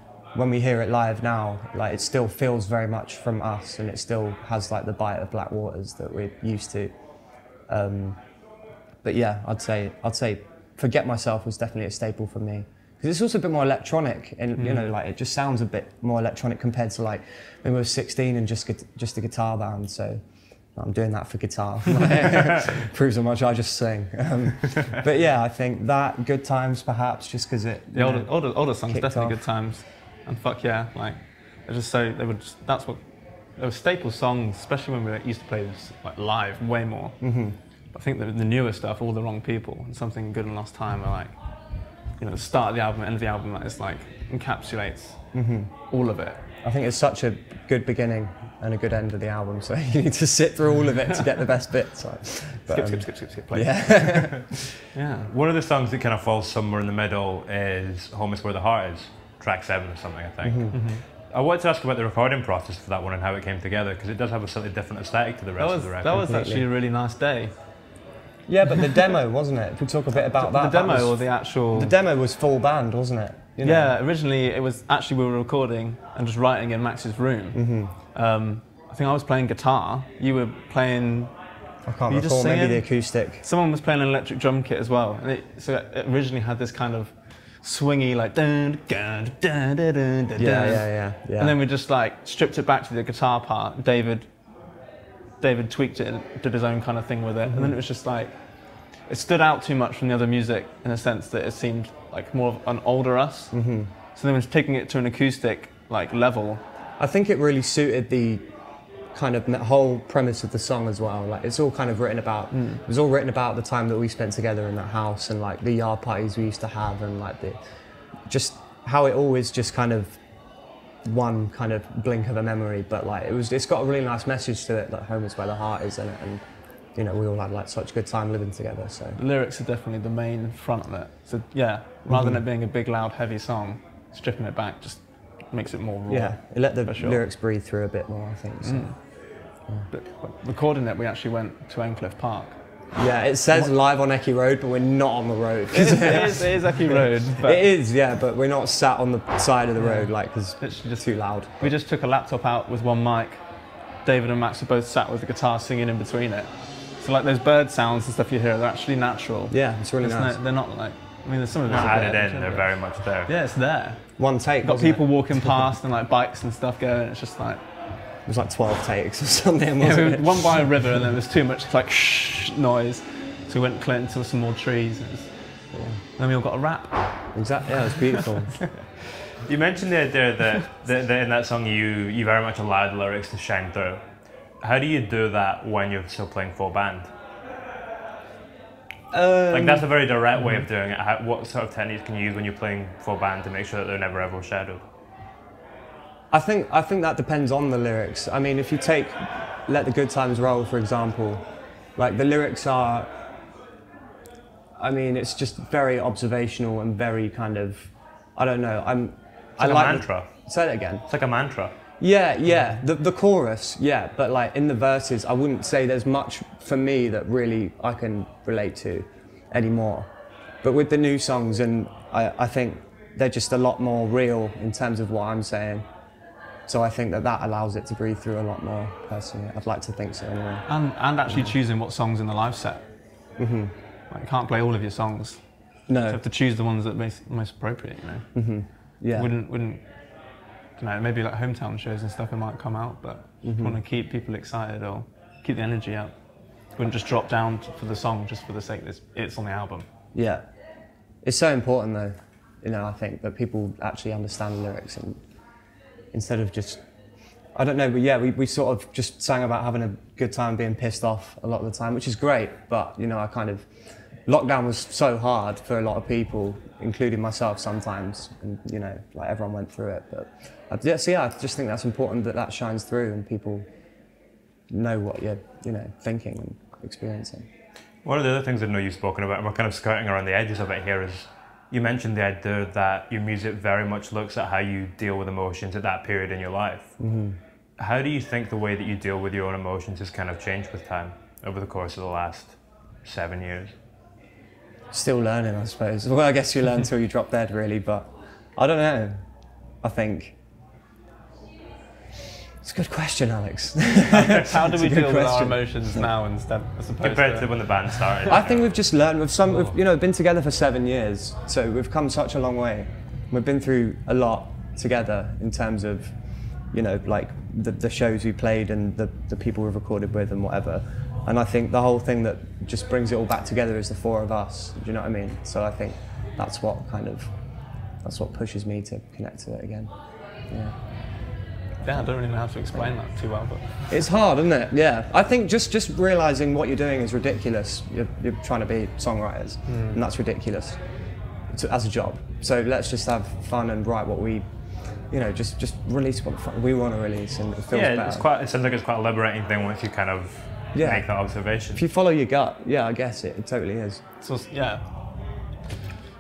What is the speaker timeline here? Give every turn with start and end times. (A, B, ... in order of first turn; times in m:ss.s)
0:00.3-0:06.9 A
0:07.7-0:08.2 A
0:09.0-0:20.2 A
0:14.6-0:14.9 B
0:20.8-0:29.4 A
0:27.9-0:33.0 B
0:33.6-0:37.3 B
0:37.2-0:37.6 A
0:37.9-0:41.4 B
0:42.2-0:45.3 B
0:45.3-0:45.7 A
0:45.9-0:46.4 B
0:46.6-0:54.6 A
0:52.7-0:54.2 B
0:54.9-0:55.3 B
0:55.3-1:06.2 C
1:00.4-1:00.8 A
1:00.7-1:01.0 B
1:05.6-1:07.5 B
1:06.1-1:06.6 A
1:08.5-1:13.9 A
1:10.1-1:11.9 B
1:13.6-1:21.3 B
1:17.5-1:17.9 A
1:21.8-1:23.4 A
1:22.1-1:34.3 B
1:30.4-1:31.6 A
1:35.4-1:38.3 B
1:37.4-1:37.8 A
1:39.1-1:43.5 B
1:43.5-1:43.9 A
1:44.1-1:46.6 B
1:47.0-1:48.4 A
1:49.1-1:57.6 A
1:52.5-1:52.8 B
1:58.3-2:00.2 A
2:01.0-2:06.4 A
2:06.9-2:09.2 A
2:09.1-2:17.2 B
2:12.1-2:12.4 A
2:16.1-2:18.9 A
2:18.6-2:19.0 B
2:19.9-2:22.6 B
2:22.9-2:31.7 A
2:25.7-2:27.6 B
2:29.8-2:33.4 B
2:34.0-2:47.6 B
2:39.5-2:40.4 A
2:41.7-2:43.3 C
2:44.2-2:45.6 A
2:48.2-2:50.6 A
2:49.8-2:55.3 B
2:55.7-2:56.0 A
2:56.2-2:57.4 B
2:57.3-2:58.6 A
2:59.4-3:04.0 C
3:04.6-3:07.1 C
3:09.1-3:09.9 A
3:09.5-3:14.8 C
3:16.3-3:21.4 A
3:22.0-3:23.1 A
3:24.8-3:31.0 A
3:29.6-3:30.3 C
3:31.1-3:31.7 C
3:32.0-3:40.1 A
3:40.6-3:45.8 A
3:46.7-3:50.7 A
3:50.7-3:52.8 B
3:51.2-3:51.5 A
3:53.4-3:53.7 A
3:54.1-3:55.4 B
3:55.9-3:56.2 A
3:56.0-3:58.3 B
3:58.3-3:59.3 A
3:59.1-3:59.8 B
4:00.8-4:06.1 B
4:03.4-4:03.8 A
4:06.8-4:09.9 B
4:10.1-4:10.4 A
4:11.2-4:15.2 A
4:16.1-4:16.8 A
4:17.5-4:23.6 A
4:24.3-4:33.6 A
4:34.7-4:37.5 A
4:38.0-4:46.9 C
4:47.0-4:47.4 A
4:47.8-4:53.7 C
4:54.9-4:59.2 A
4:59.8-5:00.3 A
5:02.6-5:06.1 A
5:04.1-5:08.3 B
5:07.0-5:08.7 C
5:08.3-5:16.1 A
5:16.7-5:27.3 A
5:28.0-5:29.9 A
5:30.5-5:30.8 A
5:31.8-5:33.8 B
5:33.9-5:40.8 A
5:39.7-5:40.0 B
5:41.5-5:44.4 A
5:45.1-5:48.3 A
5:47.7-5:51.8 C
5:50.7-5:51.1 A
5:51.7-5:54.0 A
5:54.2-5:54.8 B